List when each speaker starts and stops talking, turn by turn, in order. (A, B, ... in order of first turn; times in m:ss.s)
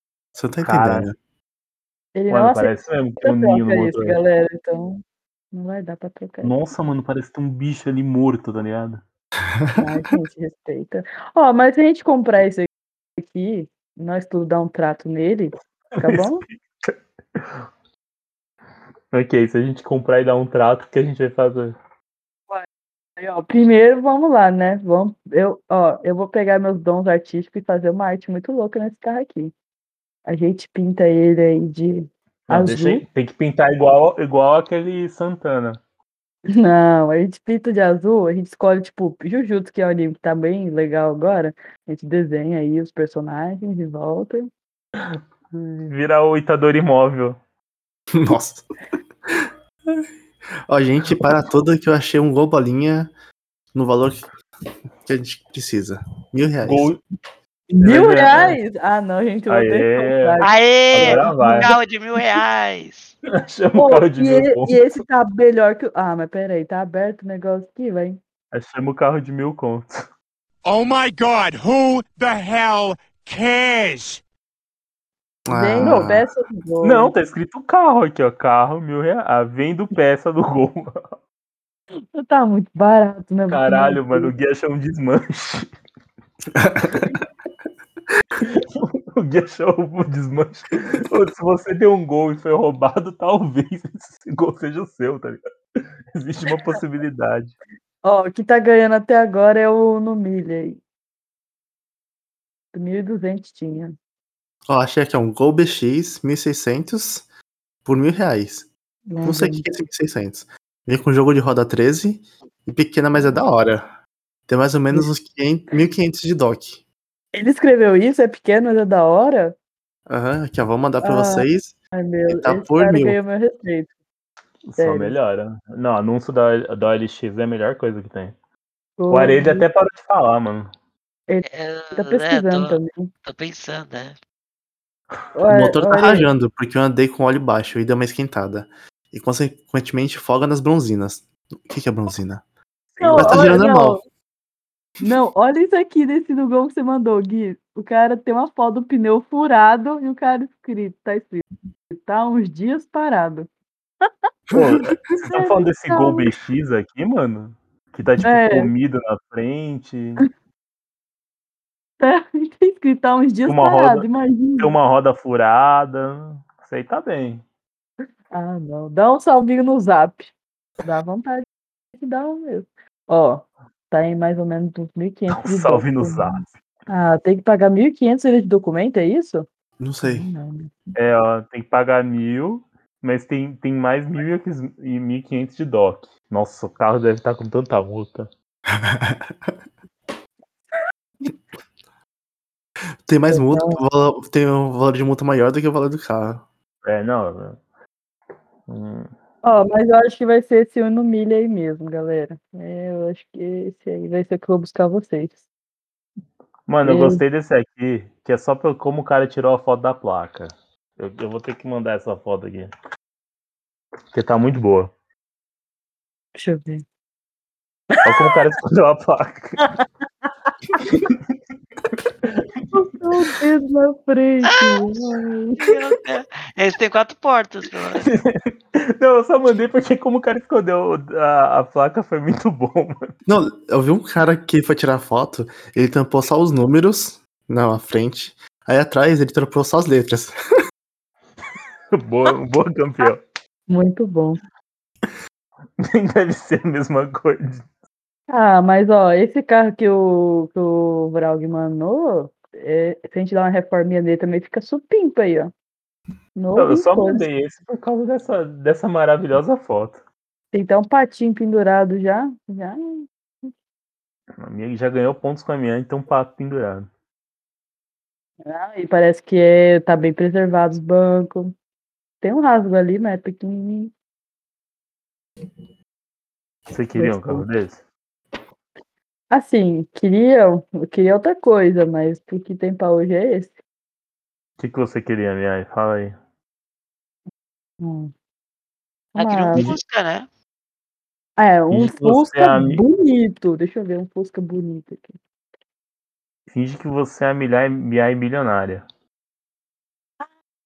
0:00.4-0:01.2 A
0:00.6-0:01.1 B
0:02.2-0:05.0 C
0:02.3-0:04.2 B
0:05.5-0:06.5 C
0:06.4-0:09.0 B
0:09.8-0:16.4 C
0:16.0-0:17.4 B
0:19.1-0:21.8 B
0:23.2-0:29.5 C
0:30.3-0:33.0 C
0:32.5-0:35.8 B
0:36.5-0:44.5 C
0:45.0-0:47.4 B
0:48.1-0:48.7 A
0:49.3-0:50.0 A
0:50.7-0:53.1 A
0:53.7-0:54.3 A
0:55.0-0:56.9 A
0:56.6-0:57.0 B
0:57.7-1:01.6 C
0:57.8-0:58.6 B
0:59.5-1:01.8 B
1:00.4-1:03.2 D
1:03.3-1:05.0 B
1:03.8-1:08.2 C
1:08.5-1:10.0 B
1:10.6-1:14.2 E
1:15.5-1:16.3 A
1:15.5-1:17.1 C
1:15.8-1:16.1 B
1:16.8-1:21.0 B
1:22.1-1:24.3 C
1:23.5-1:25.7 B
1:26.6-1:26.9 A
1:28.4-1:35.4 B
1:36.1-1:37.5 B
1:38.0-1:40.8 C
1:42.7-1:44.0 C
1:44.7-1:47.3 A
1:47.8-1:48.7 A
1:49.1-1:49.7 C
1:49.2-1:53.9 A
1:54.5-1:56.8 A
1:57.3-1:59.6 C
2:00.1-2:01.8 A
2:01.0-2:03.9 C
2:02.3-2:03.2 A
2:04.7-2:08.4 B
2:04.8-2:05.2 C
2:09.0-2:09.6 C
2:09.1-2:10.7 B
2:11.3-2:13.1 C
2:11.4-2:14.2 D
2:15.4-2:16.3 C
2:15.5-2:22.4 A
2:23.0-2:23.6 B
2:23.0-2:24.0 C
2:23.1-2:24.0 A
2:25.0-2:33.5 C
2:34.5-2:35.0 A
2:34.5-2:40.2 B
2:35.2-2:36.3 C
2:38.2-2:38.7 C
2:42.0-2:44.8 C
2:43.5-2:44.1 B
2:44.6-2:47.4 B
2:48.3-2:51.4 C
2:52.0-2:59.5 C
2:55.3-2:56.5 B
2:59.8-3:00.3 A
3:00.0-3:00.7 C
3:01.0-3:08.3 B
3:08.8-3:09.5 A
3:13.1-3:16.4 A
3:13.3-3:13.8 C
3:16.8-3:17.6 B
3:18.7-3:19.1 B
3:19.4-3:25.4 C
3:26.7-3:32.7 B
3:26.8-3:27.2 C
3:34.1-3:34.9 B
3:36.4-3:36.8 C
3:37.9-3:38.3 C
3:38.0-3:39.6 B
3:40.8-3:41.2 B
3:42.7-3:45.7 C
3:44.5-3:44.9 D
3:45.6-3:48.1 D
3:48.0-3:53.1 B
3:53.3-4:00.4 A
4:01.9-4:03.2 B
4:03.7-4:04.4 C
4:05.8-4:07.6 B
4:08.3-4:15.5 C
4:16.4-4:17.3 C
4:16.6-4:20.0 B
4:20.5-4:23.5 C
4:24.4-4:26.9 B
4:28.4-4:31.5 C
4:32.2-4:33.9 C
4:36.7-4:37.8 B
4:37.0-4:37.5 C
4:39.3-4:43.6 C
4:44.6-4:46.2 B
4:47.8-4:48.1 C
4:49.1-4:49.7 C
4:49.2-4:50.3 D
4:49.5-4:49.8 B
4:51.4-4:55.1 C
4:51.7-4:52.8 B
4:56.5-4:58.8 B